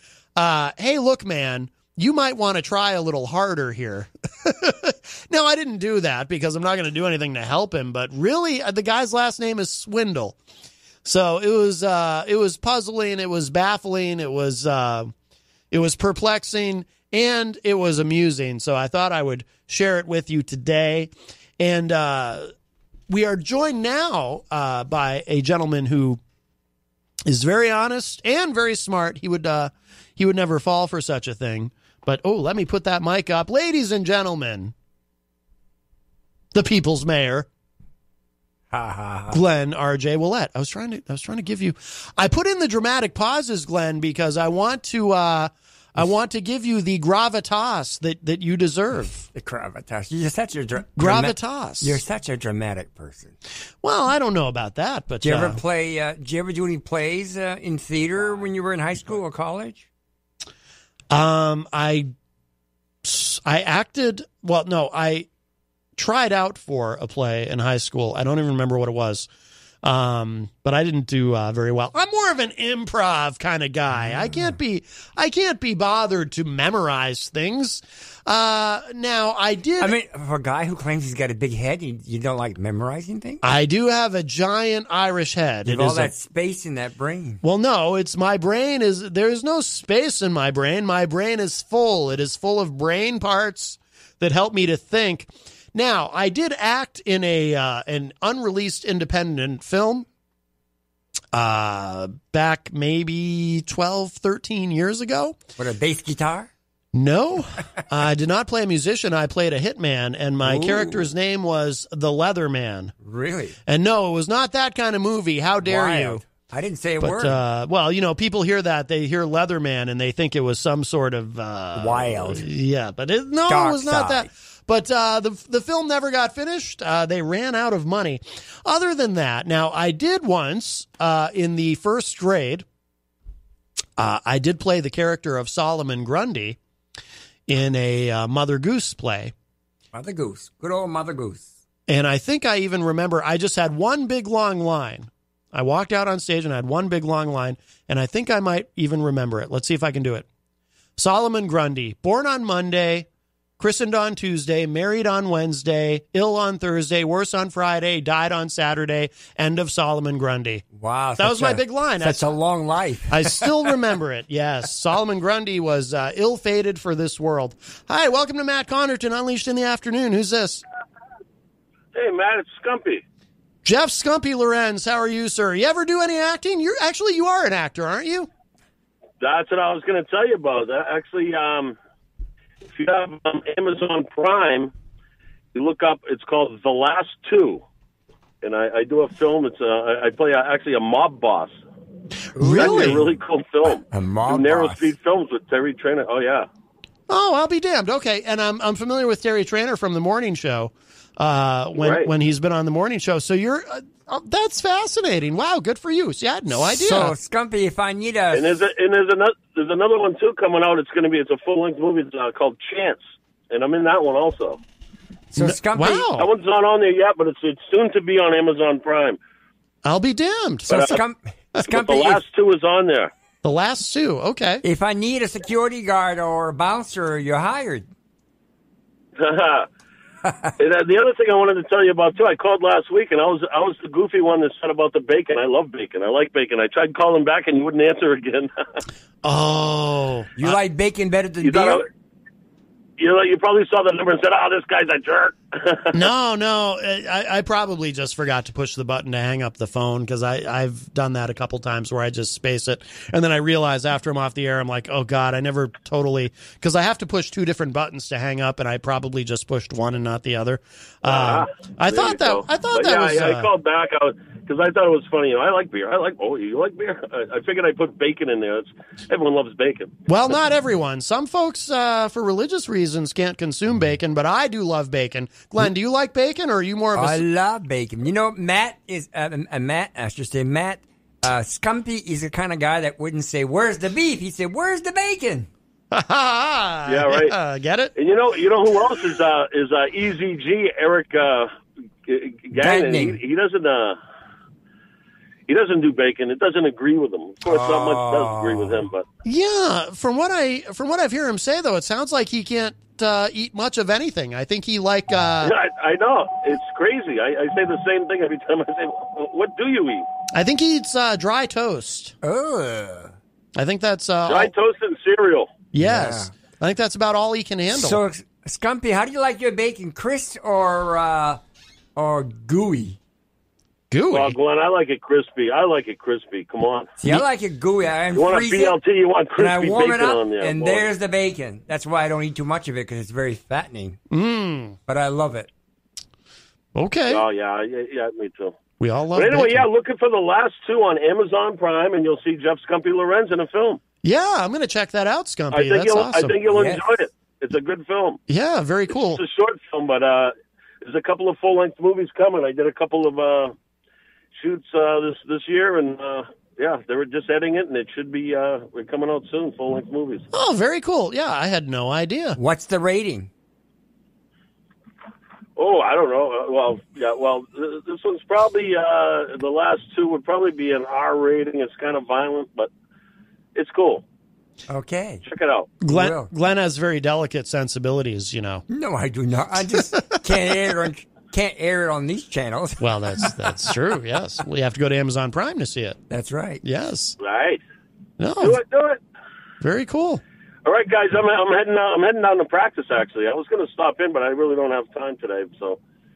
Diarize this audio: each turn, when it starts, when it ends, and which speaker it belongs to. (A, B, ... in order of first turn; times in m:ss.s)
0:00.4-0:10.4 A
0:11.0-0:15.1 A
0:15.7-0:22.5 A
0:23.1-0:26.2 A
0:27.3-0:34.7 A
0:36.5-0:37.5 A
0:38.7-0:39.4 B
0:39.3-0:49.2 A
0:49.1-0:53.4 B
0:51.0-0:52.0 A
0:53.8-0:55.6 A
0:55.2-0:59.8 B
1:01.1-1:02.1 A
1:03.0-1:05.3 A
1:06.0-1:09.3 A
1:09.8-1:20.0 A
1:14.0-1:14.6 B
1:19.8-1:23.4 B
1:23.4-1:26.1 A
1:25.6-1:27.4 B
1:27.4-1:40.1 A
1:41.3-1:45.4 A
1:45.6-1:46.5 B
1:46.9-1:52.9 A
1:50.4-1:51.1 B
1:53.0-1:53.6 B
1:53.7-1:56.2 A
1:55.6-1:57.4 B
1:57.0-2:12.6 A
2:01.8-2:02.5 B
2:03.5-2:04.3 B
2:14.0-2:16.6 A
2:17.5-2:19.3 A
2:19.9-2:21.6 B
2:21.9-2:30.3 A
2:31.0-2:33.1 A
2:33.6-2:40.6 A
2:40.7-2:43.7 B
2:41.2-2:42.2 A
2:43.1-2:50.6 A
2:51.9-2:53.0 C
2:53.6-2:58.3 A
2:59.2-3:01.8 C
3:02.7-3:04.7 C
3:05.5-3:07.6 C
3:08.4-3:11.6 C
3:12.4-3:13.1 B
3:12.4-3:13.1 A
3:12.4-3:16.5 C
3:13.9-3:14.9 B
3:17.1-3:27.2 A
3:21.8-3:22.1 C
3:26.6-3:28.5 B
3:28.3-3:34.6 C
3:35.3-3:36.1 B
3:35.4-3:36.3 A
3:36.2-3:39.2 C
3:39.8-3:40.7 A
3:40.7-3:41.0 C
3:40.7-3:42.2 B
3:41.6-3:43.1 C
3:43.4-3:44.6 A
3:44.6-3:47.9 B
3:49.2-3:49.7 C
3:50.6-3:58.5 C
3:59.2-4:00.6 A
4:00.4-4:01.8 B
4:01.4-4:01.8 C
4:03.0-4:06.0 C
4:05.9-4:23.5 A
4:21.1-4:29.9 C
4:30.1-4:37.2 A
4:37.0-4:45.5 B
4:45.9-4:48.0 A
4:46.9-4:47.3 C
4:48.0-4:51.5 C
4:52.1-4:54.0 C
4:52.5-4:53.2 B
4:55.5-4:59.1 C
4:57.5-4:58.8 B
4:59.2-5:05.5 A
5:05.4-5:10.1 C
5:10.3-5:12.2 A
5:12.2-5:13.1 B
5:13.6-5:14.5 A
5:14.3-5:15.5 C
5:15.7-5:18.0 A
5:15.8-5:16.3 B
5:17.7-5:21.4 B
5:22.0-5:23.0 B
5:23.9-5:24.4 A
5:24.1-5:26.9 C
5:27.0-5:28.8 B
5:28.1-5:30.9 C
5:29.4-5:34.0 B
5:34.1-5:34.8 A
5:34.9-5:35.5 B
5:36.8-5:37.2 A
5:37.1-5:38.6 C
5:38.8-5:39.7 A
5:39.1-5:43.8 C
5:44.0-5:46.4 A
5:45.5-5:48.2 C
5:46.5-5:46.8 B
5:48.3-5:49.2 A
5:49.0-5:53.6 C
5:54.4-6:00.3 C
6:00.3-6:02.4 A
6:02.4-6:03.3 B
6:05.6-6:12.7 C
6:13.6-6:14.0 C
6:14.7-6:15.2 B
6:15.2-6:15.8 C
6:15.8-6:18.6 A
6:15.8-6:16.3 B
6:18.7-6:23.7 B
6:19.8-6:20.1 A
6:22.8-6:26.0 A
6:26.1-6:26.6 B
6:26.6-6:27.2 A
6:27.2-6:27.6 C
6:28.2-6:28.6 A
6:28.4-6:29.0 C
6:29.6-6:30.2 A
6:30.6-6:35.8 C